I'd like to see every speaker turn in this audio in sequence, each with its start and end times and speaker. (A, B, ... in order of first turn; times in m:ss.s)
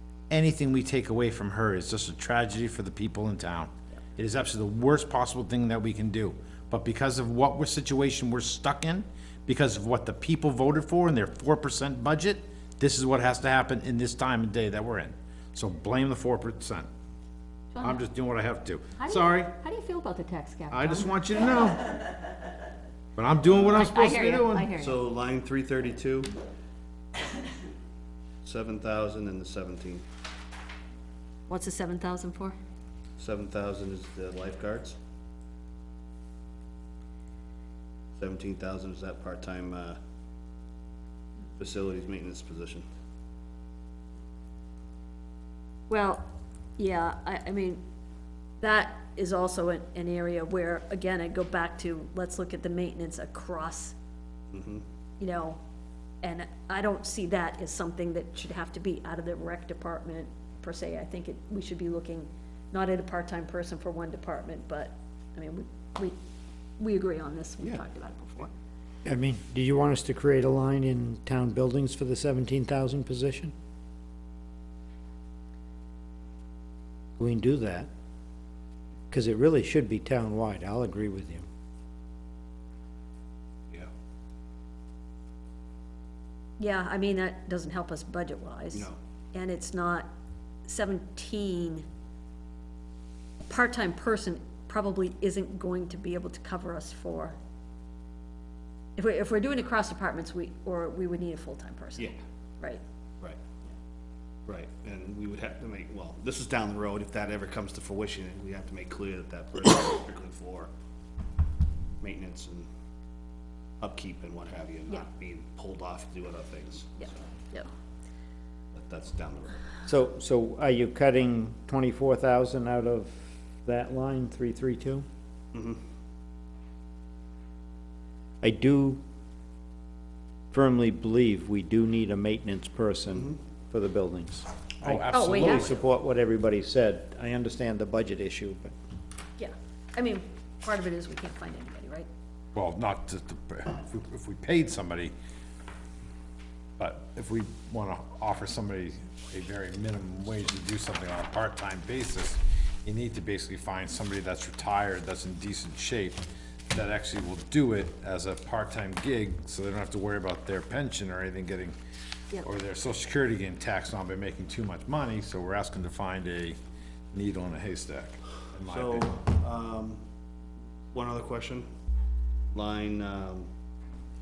0:00.3-0:16.9 A
0:17.7-0:18.0 B
0:17.8-0:19.5 A
0:19.0-0:21.1 B
0:20.7-0:22.0 A
0:23.2-0:24.8 A
0:23.7-0:25.0 B
0:24.8-0:26.4 C
0:28.4-0:30.0 C
0:31.5-0:32.6 B
0:33.2-0:35.0 C
0:38.2-0:40.0 C
0:41.6-0:42.8 C
0:45.9-0:46.3 B
0:46.8-0:47.8 B
0:48.6-0:54.0 B
0:54.5-0:54.8 C
0:55.2-0:55.6 B
0:56.2-1:06.2 B
1:06.8-1:08.5 B
1:09.0-1:13.5 D
1:17.2-1:17.9 D
1:19.1-1:21.5 D
1:26.6-1:30.1 B
1:30.6-1:31.9 B
1:33.5-1:37.4 B
1:39.0-1:42.8 B
1:44.5-1:50.7 C
1:52.0-1:52.7 C
1:53.8-1:57.1 C
1:57.0-1:57.7 B
1:58.7-1:59.6 C
1:59.9-2:05.0 D
2:05.5-2:05.8 C
2:08.4-2:09.0 D
2:10.5-2:18.7 D
2:14.8-2:15.8 A
2:15.1-2:15.7 B
2:19.4-2:22.1 B
2:22.6-2:25.1 A
2:26.8-2:41.7 A
2:42.4-2:46.6 A
2:47.1-2:49.1 A
2:48.7-2:50.0 C
2:50.9-2:51.7 C
2:52.5-2:53.5 C